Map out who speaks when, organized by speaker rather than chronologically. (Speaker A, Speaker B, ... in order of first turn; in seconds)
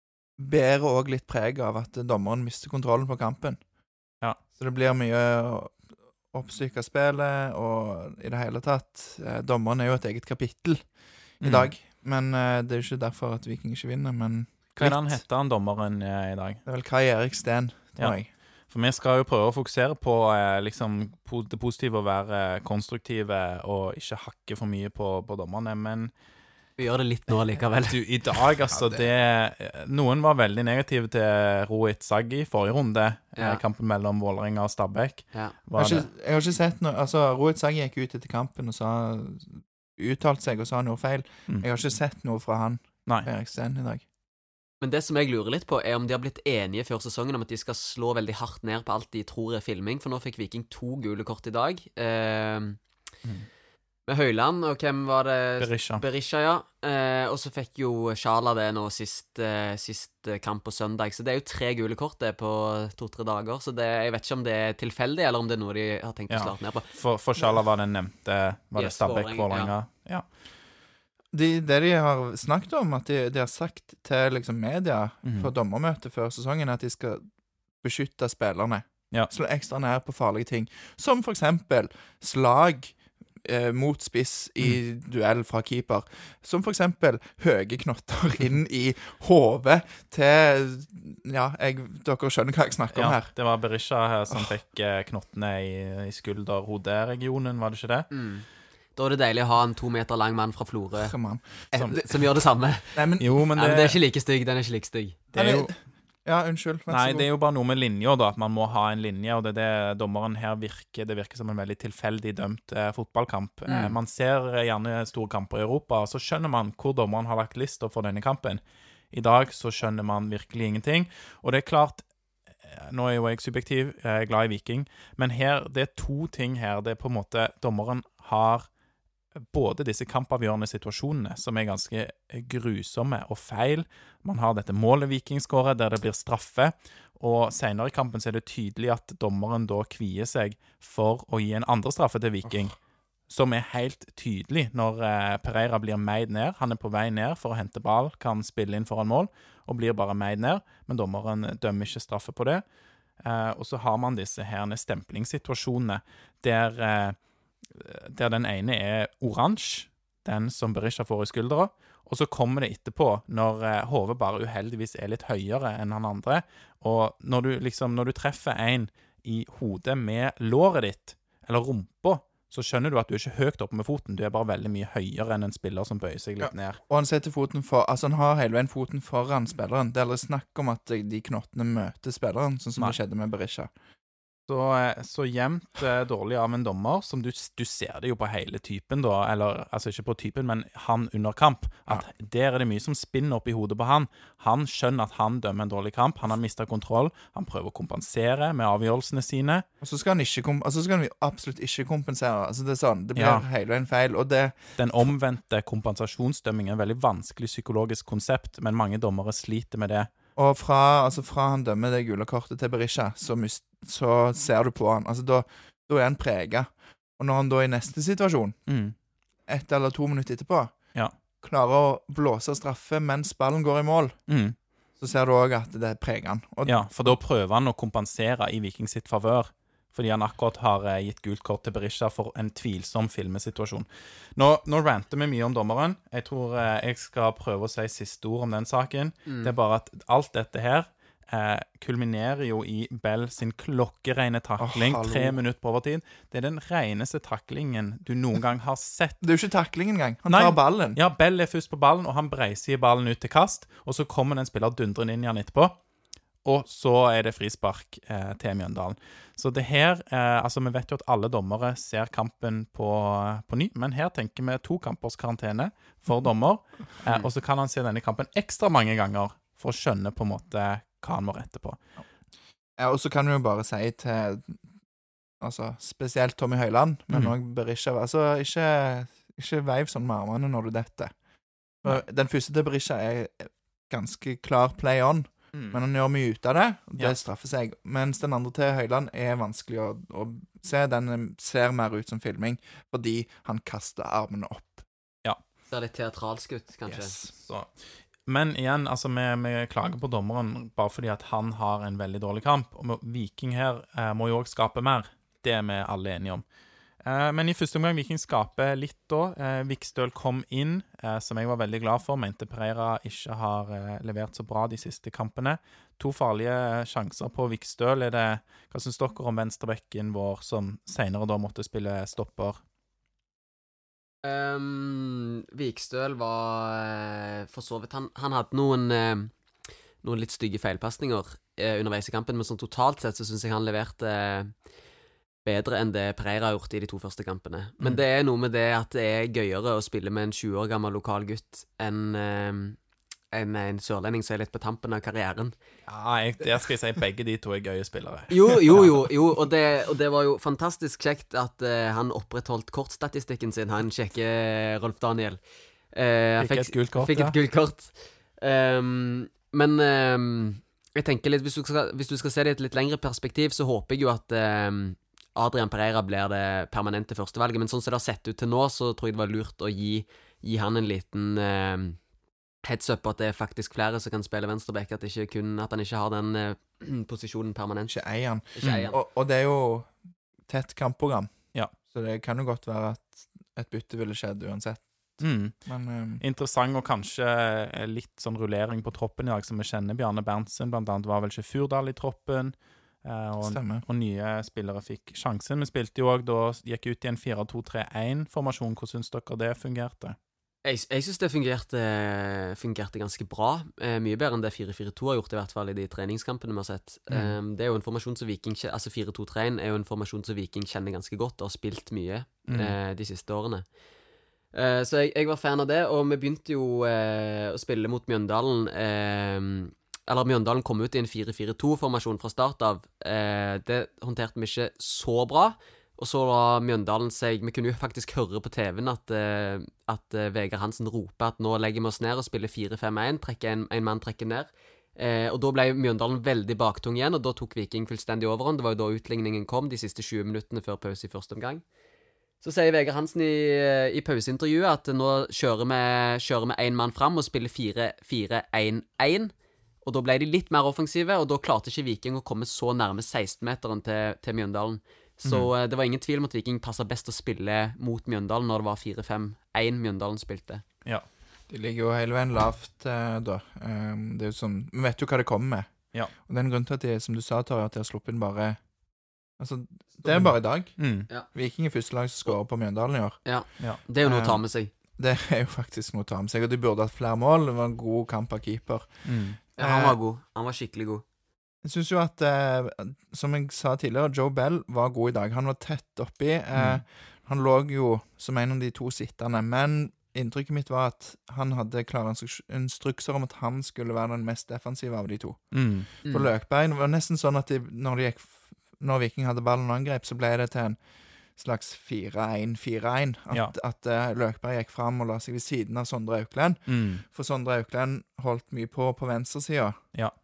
Speaker A: 0.4-3.6, 4.5-5.8, 6.3-15.2, 16.6-18.3, 28.7-29.1, 35.8-44.0, 71.3-77.2, 77.8-93.3, 101.0-102.0, 102.9-103.4, 105.3-107.3, 176.4-183.7, 199.8-204.6, 210.3-218.6, 219.5-220.7, 221.4-224.2, 225.0-227.2, 244.6-245.4, 249.2-251.0, 272.8-274.6, 275.4-281.1, 281.8-294.9, 296.9-297.3, 377.9-379.9, 380.5-381.3, 381.9-386.2, 393.4-393.8, 461.5-468.6, 469.4-473.2, 474.0-474.4, 475.0-480.0, 481.6-495.5, 496.0-500.8, 501.4-509.8
Speaker B: 11.4-11.7, 14.8-16.6, 18.7-26.1, 27.9-36.1, 55.6-56.0, 66.3-70.3, 75.2-75.5, 92.9-98.1, 103.2-104.0, 105.3-105.7, 106.9-118.6, 119.1-122.0, 122.6-128.7, 129.4-142.7, 143.3-152.6, 153.2-157.2, 157.7-176.8, 184.5-199.7, 203.2-203.4, 204.8-210.1, 218.7-218.9, 224.3-224.6, 226.7-249.2, 250.3-255.8, 256.4-271.8, 297.3-297.7, 298.2-306.4, 307.0-322.6, 345.9-349.0, 356.4-357.3, 378.6-378.9, 385.2-385.6, 386.2-400.2, 407.1-407.3, 412.5-412.7, 455.2-455.5, 470.0-471.1, 479.0-479.4, 486.5-486.8, 495.5-495.9, 506.7-507.0
Speaker C: 26.8-28.0, 33.4-33.6, 44.8-52.8, 54.1-67.5, 68.8-69.7, 98.1-101.1, 101.8-105.2, 113.7-114.0, 239.2-239.5, 295.7-297.2, 324.2-329.3, 330.0-334.5, 335.4-342.8, 343.3-345.5, 348.3-372.0, 372.6-379.0, 400.6-413.6, 414.5-441.6, 442.4-449.3, 449.8-460.6, 473.2-474.7, 479.6-481.0, 496.0-496.3